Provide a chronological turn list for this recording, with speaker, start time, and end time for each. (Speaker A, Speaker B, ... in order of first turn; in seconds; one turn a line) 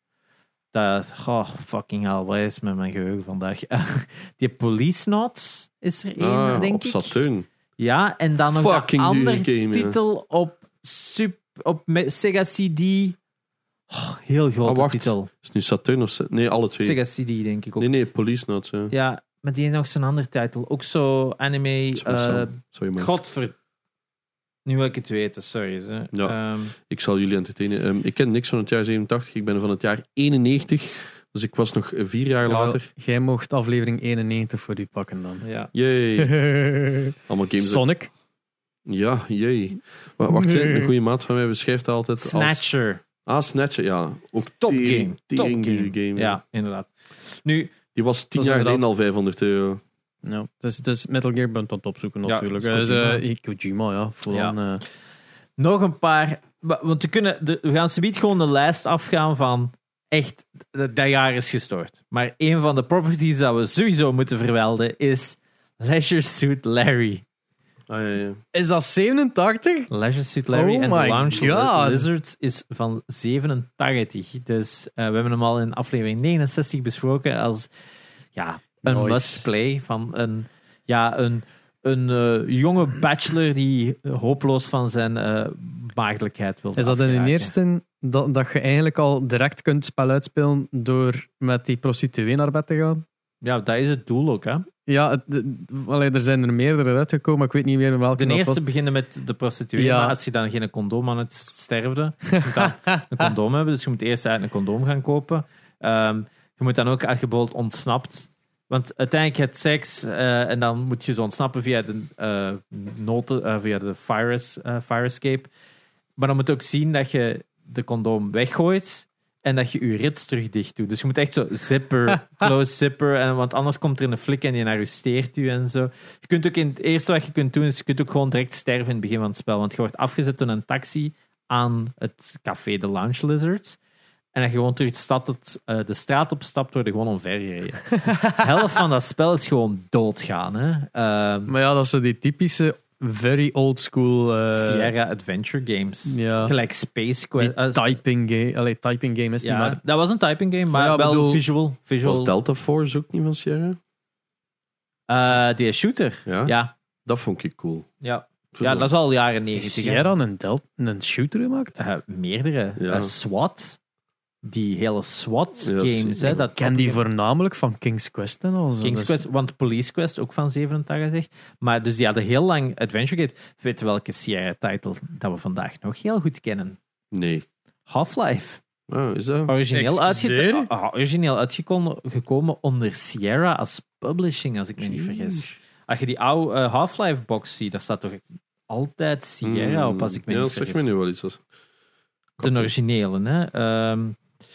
Speaker A: 0.7-7.2
Speaker B: 6.2-7.5
Speaker A: 7.8-13.2
Speaker B: 8.5-10.0
Speaker A: 13.9-15.3
Speaker B: 14.6-17.0
Speaker A: 16.8-17.9
Speaker B: 17.8-18.9
Speaker A: 18.9-23.5
Speaker B: 21.9-23.1
Speaker A: 24.6-26.7
Speaker B: 26.9-32.9
Speaker C: 32.5-35.4
Speaker A: 35.4-35.7
Speaker B: 35.7-36.4
Speaker C: 36.2-38.1
Speaker B: 37.3-37.8
Speaker B: 38.9-42.6
Speaker C: 40.3-40.9
Speaker A: 42.2-43.0
Speaker B: 43.2-46.4
Speaker A: 44.6-47.7
Speaker B: 47.9-49.8
Speaker C: 48.3-48.8
Speaker C: 50.2-54.8
Speaker A: 52.2-53.2
Speaker A: 54.3-54.5
Speaker A: 55.6-67.2
Speaker B: 67.9-68.4
Speaker C: 68.5-69.9
Speaker A: 69.9-77.7
Speaker C: 70.5-72.1
Speaker A: 78.3-87.5
Speaker C: 78.8-79.5
Speaker C: 86.8-93.0
Speaker A: 93.4-94.7
Speaker C: 94.9-98.6
Speaker A: 98.2-115.5
Speaker C: 99.8-100.2
Speaker C: 102.3-103.3
Speaker A: 116.2-133.8
Speaker A: 134.3-141.5
Speaker C: 141.5-144.9
Speaker A: 144.5-148.0
Speaker C: 146.1-146.5
Speaker C: 147.4-149.8
Speaker A: 149.4-152.3
Speaker C: 150.7-151.4
Speaker B: 152.0-153.8
Speaker A: 155.1-156.7
Speaker B: 156.2-156.5
Speaker B: 157.1-157.9
Speaker A: 158.0-160.1
Speaker B: 158.5-158.9
Speaker C: 159.5-161.8
Speaker A: 161.8-163.8
Speaker B: 162.8-163.1
Speaker A: 164.4-167.0
Speaker B: 165.6-166.5
Speaker C: 166.6-169.2
Speaker A: 168.8-176.8
Speaker B: 177.1-177.4
Speaker A: 177.9-178.6
Speaker B: 178.9-179.5
Speaker A: 179.5-190.9
Speaker C: 179.7-180.7
Speaker B: 184.8-185.5
Speaker B: 189.4-191.4
Speaker B: 192.4-192.7
Speaker A: 192.4-194.2